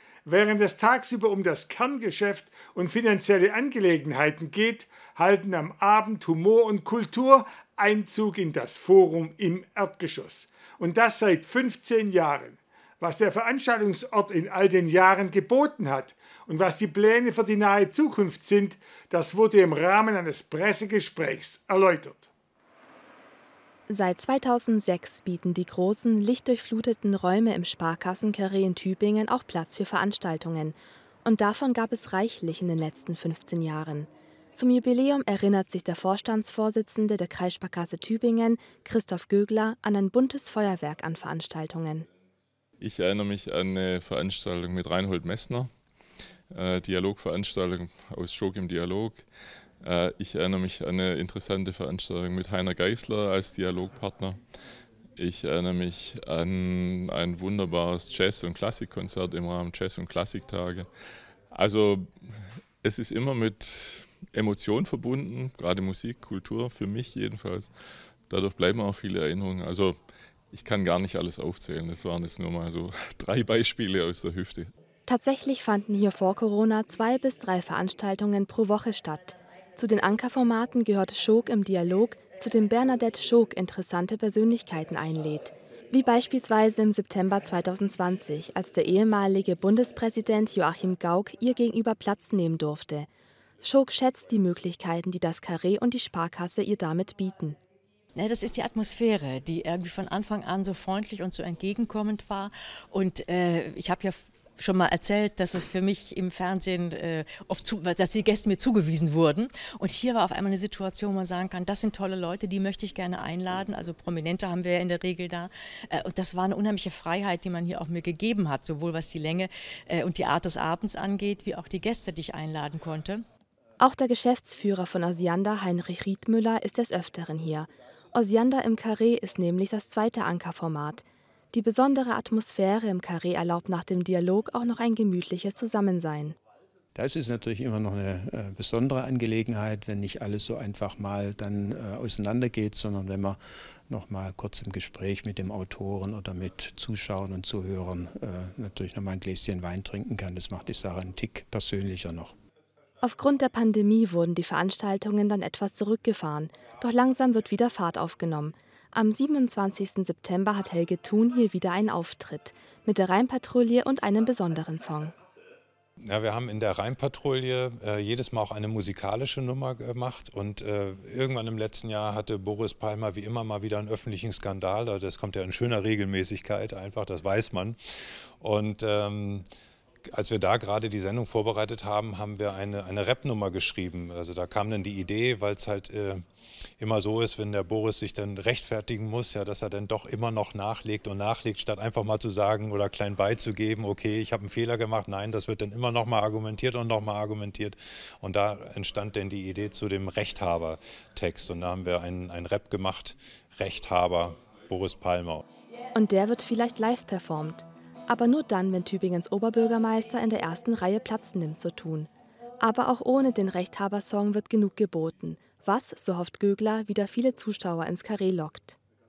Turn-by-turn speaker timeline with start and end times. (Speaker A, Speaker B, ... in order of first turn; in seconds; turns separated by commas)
Speaker A: 0.3-22.3, Speaker B: 23.9-42.1, Speaker C: 42.8-45.7, Speaker C: 46.5-49.2, Speaker C: 49.8-54.4, Speaker C: 55.2-60.9, Speaker C: 61.5-67.7, Speaker C: 68.3-70.0, Speaker C: 70.5-74.7, Speaker B: 75.1-93.1, Speaker B: 93.6-97.6, Speaker D: 98.2-123.2, Speaker B: 123.8-136.4, Speaker E: 136.9-152.4, Speaker B: 153.0-165.1, Speaker F: 166.1-177.8, Speaker F: 178.4-179.4, Speaker F: 180.1-186.2, Speaker F: 186.8-205.4, Speaker B: 205.9-218.8